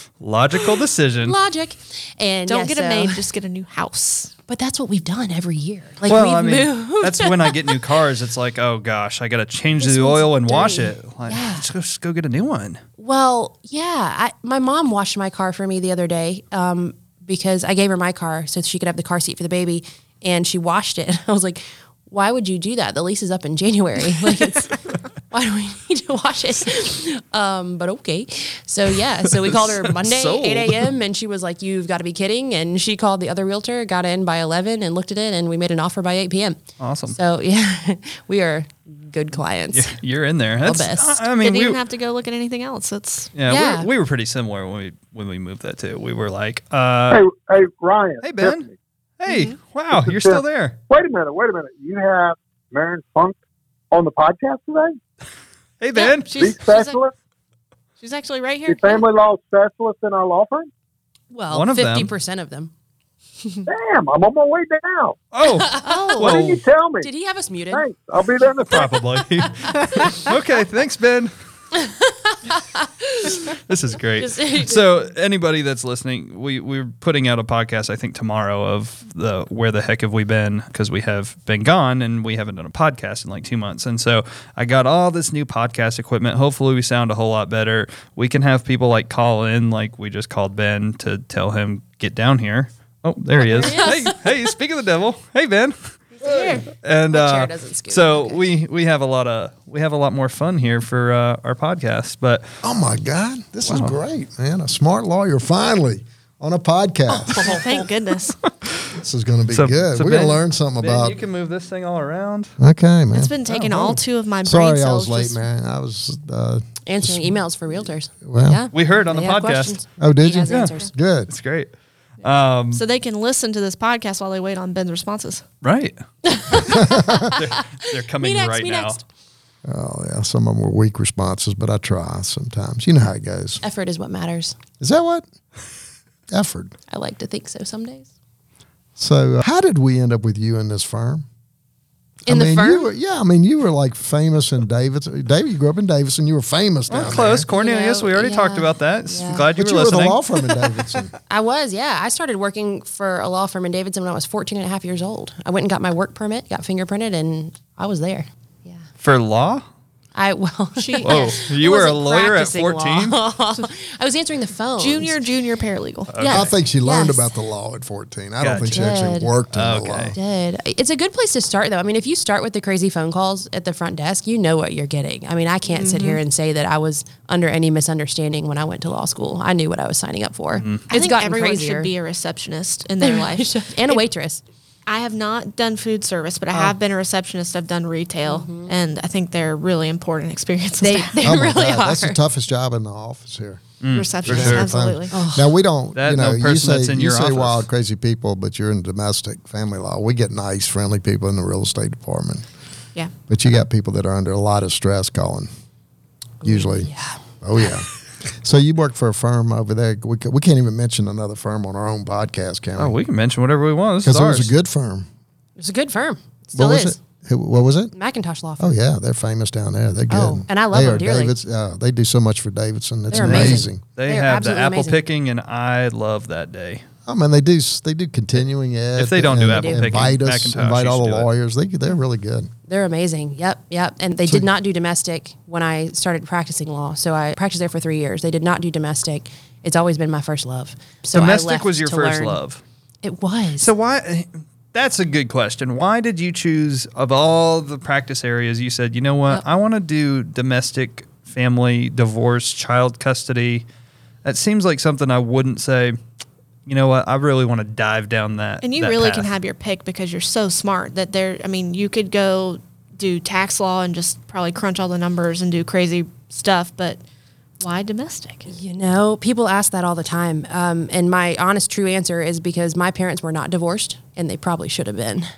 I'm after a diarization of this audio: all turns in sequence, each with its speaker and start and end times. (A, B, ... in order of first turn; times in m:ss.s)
0:00.2-0:01.4 A
0:01.2-0:03.2 B
0:02.5-0:04.3 C
0:04.5-0:07.8 B
0:06.0-0:12.8 A
0:09.8-0:11.6 B
0:13.0-0:39.9 B
0:29.4-0:30.9 A
0:36.8-0:37.2 A
0:39.7-0:41.8 A
0:40.6-0:41.2 B
0:41.4-0:43.3 C
0:43.3-0:47.2 A
0:43.4-0:43.9 B
0:47.1-0:48.7 D
0:48.2-0:50.8 A
0:49.9-0:53.4 D
0:53.9-0:55.0 D
0:55.8-0:56.4 A
0:56.3-0:56.9 C
0:56.3-0:57.1 D
0:58.0-0:59.0 C
0:58.3-0:58.6 B
0:58.7-1:00.7 D
1:01.3-1:02.7 B
1:01.5-1:02.1 A
1:03.6-1:05.2 D
1:05.3-1:06.6 A
1:05.5-1:06.4 B
1:06.0-1:07.1 D
1:07.0-1:07.8 B
1:07.7-1:09.0 D
1:08.7-1:11.3 A
1:09.4-1:10.3 B
1:11.8-1:13.5 B
1:13.4-1:35.8 A
1:14.2-1:14.8 B
1:33.4-1:34.2 B
1:36.2-1:36.6 C
1:36.2-1:38.4 B
1:36.7-1:42.5 A
1:42.6-1:47.6 E
1:43.7-1:43.9 A
1:47.1-1:47.9 B
1:47.3-1:48.4 C
1:48.9-1:51.2 E
1:49.5-1:52.5 A
1:52.6-1:57.4 E
1:53.1-1:55.4 C
1:56.8-2:00.9 B
1:58.2-1:58.6 E
1:58.7-1:59.8 A
2:00.0-2:01.3 E
2:00.5-2:00.7 A
2:01.3-2:02.8 A
2:02.7-2:05.4 C
2:05.6-2:09.0 A
2:06.3-2:09.0 B
2:06.7-2:07.3 E
2:09.6-2:13.6 E
2:13.6-2:14.6 B
2:14.8-2:15.2 E
2:16.3-2:16.8 E
2:16.9-2:18.1 B
2:19.0-2:21.2 E
2:22.2-2:22.8 B
2:22.3-2:27.4 E
2:26.9-2:30.2 A
2:27.4-2:29.4 B
2:29.5-2:31.1 E
2:31.3-2:38.8 B
2:39.0-2:39.6 A
2:40.1-2:45.2 B
2:40.8-2:41.3 C
2:41.0-2:43.2 A
2:44.8-2:46.1 C
2:46.1-2:46.5 A
2:46.2-2:47.3 B
2:46.3-2:50.2 E
2:48.4-2:48.8 A
2:48.7-2:49.3 B
2:49.5-2:50.1 A
2:50.1-3:01.9 B
2:55.7-2:56.2 C
3:00.6-3:00.8 A
3:00.9-3:04.0 C
3:03.0-3:04.4 B
3:04.9-3:11.2 C
3:08.2-3:08.7 B
3:10.8-3:12.2 B
3:11.2-3:22.4 E
3:13.8-3:14.7 A
3:13.9-3:15.1 C
3:15.1-3:15.5 B
3:15.9-3:17.7 A
3:23.3-3:25.5 E
3:26.4-3:27.2 B
3:26.4-3:26.9 E
3:27.4-3:32.9 E
3:32.8-3:34.5 A
3:34.0-3:35.1 E
3:35.6-3:37.0 B
3:36.5-3:37.9 E
3:37.9-3:38.7 B
3:38.6-3:43.8 E
3:40.1-3:41.3 B
3:43.1-3:45.0 B
3:43.1-3:46.8 A
3:47.1-3:52.5 E
3:49.0-3:51.3 A
3:49.5-3:50.1 B
3:52.7-4:02.4 B
4:01.1-4:02.6 A
4:03.0-4:03.7 B
4:03.6-4:13.6 A
4:14.2-4:16.0 A
4:16.6-4:19.3 A
4:18.6-4:27.0 C
4:27.6-4:28.5 C
4:28.5-4:35.3 B